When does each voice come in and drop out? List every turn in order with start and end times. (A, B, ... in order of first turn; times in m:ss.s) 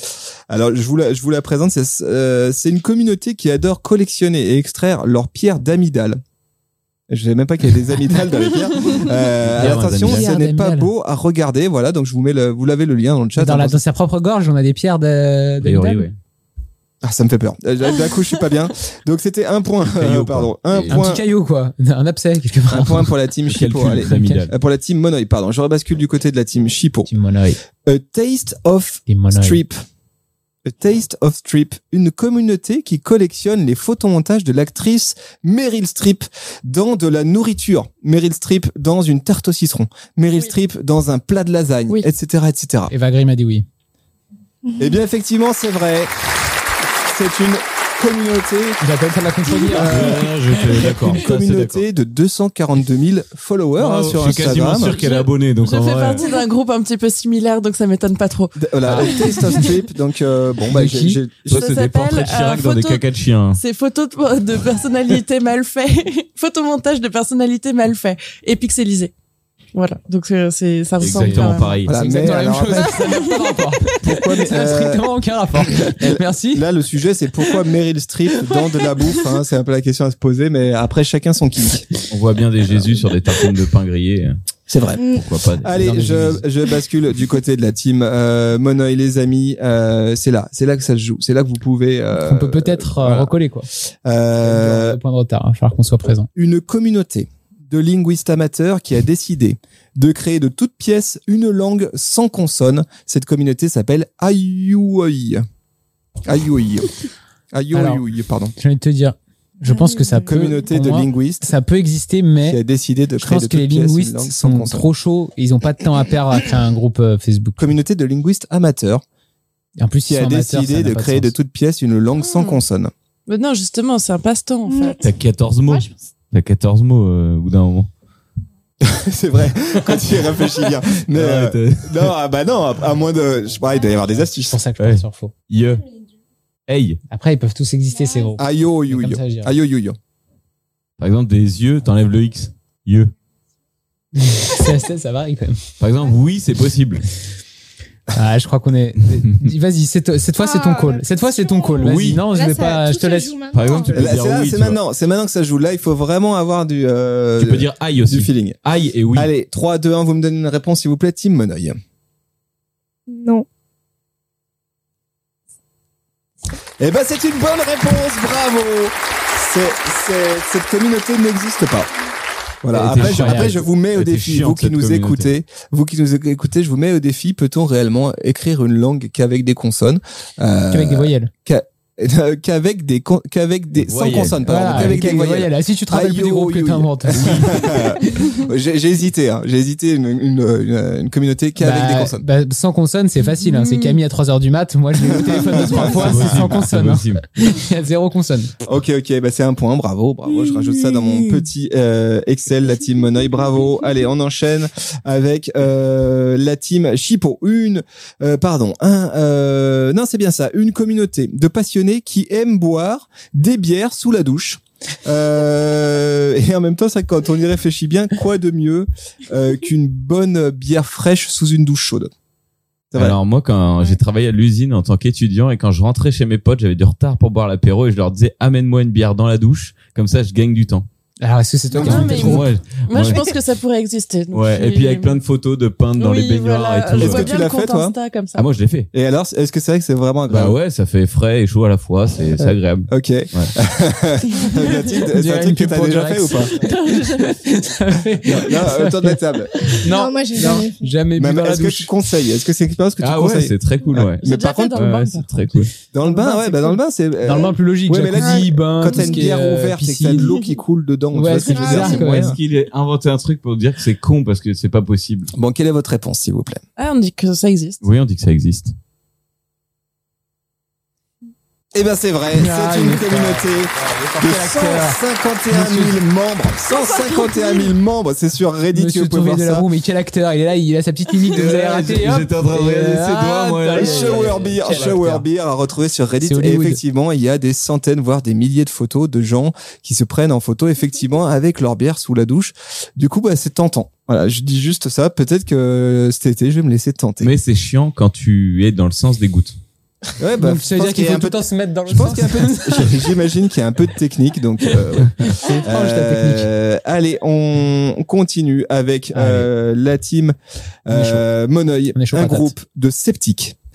0:00.5-0:06.2 A
0:07.1-0:13.8 A
0:09.4-0:10.3 B
0:09.6-0:10.9 C
0:13.4-0:16.1 C
0:15.6-0:16.2 B
0:17.0-0:21.2 A
0:19.8-0:21.0 B
0:20.9-0:23.1 C
0:22.7-0:27.1 A
0:23.5-0:24.5 B
0:24.0-0:24.5 C
0:27.1-0:27.6 C
0:27.8-0:29.8 A
0:29.1-0:29.6 C
0:30.6-0:42.9 A
0:42.9-0:43.7 C
0:44.8-0:46.1 A
0:47.0-0:48.8 A
0:48.8-0:51.1 C
0:49.6-0:55.0 A
0:49.8-0:51.8 B
0:53.8-0:56.3 B
0:54.8-0:59.8 D
0:58.6-1:01.7 A
0:58.8-0:59.6 C
1:00.7-1:01.2 C
1:01.5-1:03.6 B
1:01.5-1:09.1 D
1:09.7-1:11.8 D
1:11.0-1:11.9 B
1:11.2-1:13.0 A
1:11.9-1:16.6 C
1:14.0-1:15.1 A
1:15.6-1:21.9 A
1:22.1-1:24.4 B
1:24.7-1:33.3 A
1:25.0-1:25.2 E
1:25.1-1:25.7 B
1:25.7-1:26.4 C
1:32.1-1:33.7 C
1:34.0-1:35.0 A
1:34.4-1:36.3 C
1:36.4-1:45.4 A
1:46.2-1:46.9 A
1:47.5-1:48.5 A
1:47.7-1:48.0 C
1:48.6-1:52.6 C
1:49.7-1:50.5 D
1:50.3-1:51.5 A
1:52.5-1:54.9 A
1:53.2-1:57.7 C
1:57.6-1:59.0 A
1:59.8-2:01.3 C
2:00.1-2:02.9 A
2:02.2-2:02.6 D
2:03.3-2:05.0 D
2:04.7-2:05.0 E
2:05.0-2:07.9 B
2:08.8-2:14.6 A
2:09.8-2:12.1 B
2:14.4-2:15.3 C
2:14.8-2:15.8 B
2:16.7-2:17.0 B
2:17.1-2:19.5 C
2:18.4-2:20.0 A
2:21.0-2:23.1 B
2:24.2-2:25.6 C
2:25.8-2:27.1 B
2:28.1-2:33.4 C
2:29.2-2:29.5 B
2:30.4-2:34.1 E
2:31.8-2:32.3 B
2:33.5-2:34.8 B
2:33.9-2:38.6 A
2:37.4-2:39.3 B
2:39.1-2:41.8 A
2:43.1-2:43.5 E
2:46.8-2:51.9 A
2:52.6-3:12.2 A
2:52.7-2:53.6 C
2:52.7-2:55.3 B
3:00.7-3:01.3 C
3:03.8-3:05.0 B
3:04.4-3:07.6 C
3:07.1-3:07.9 B
3:11.6-3:18.5 C
3:13.6-3:14.0 D
3:15.0-3:16.5 A
3:15.5-3:17.2 B
3:18.6-3:42.1 A
3:42.9-3:43.2 A
3:43.0-3:50.9 B
3:51.2-3:52.5 C
3:51.7-3:52.5 A
3:51.8-3:55.2 D
3:52.0-3:53.3 B
3:54.3-3:57.4 B
3:56.0-3:58.5 D
3:56.9-3:57.9 A
3:58.4-3:58.9 B
3:58.9-4:00.6 A
4:00.3-4:03.5 B
4:02.9-4:06.5 A
4:05.1-4:09.2 C
4:06.6-4:07.3 D
4:08.2-4:09.7 A
4:09.8-4:11.9 C
4:09.9-4:10.9 E
4:11.2-4:14.8 A
4:13.0-4:15.7 B
4:14.0-4:16.6 D
4:15.9-4:22.4 A
4:17.2-4:20.3 C
4:18.2-4:19.2 E
4:21.1-4:22.4 C
4:21.5-4:22.0 E
4:21.8-4:25.3 B
4:25.3-4:26.6 A
4:26.8-4:27.8 D
4:27.8-4:28.8 B
4:31.7-4:39.7 A
4:32.3-4:35.0 C
4:35.5-4:36.0 C
4:38.7-4:45.2 C
4:41.3-4:45.0 B
4:43.7-4:57.3 A
4:46.2-4:46.8 C
4:57.2-4:59.6 B
5:00.2-5:10.4 A
5:00.4-5:03.1 C
5:04.6-5:06.5 C
5:09.1-5:09.5 C
5:10.9-5:13.6 A
5:10.9-5:11.2 C
5:12.0-5:12.5 C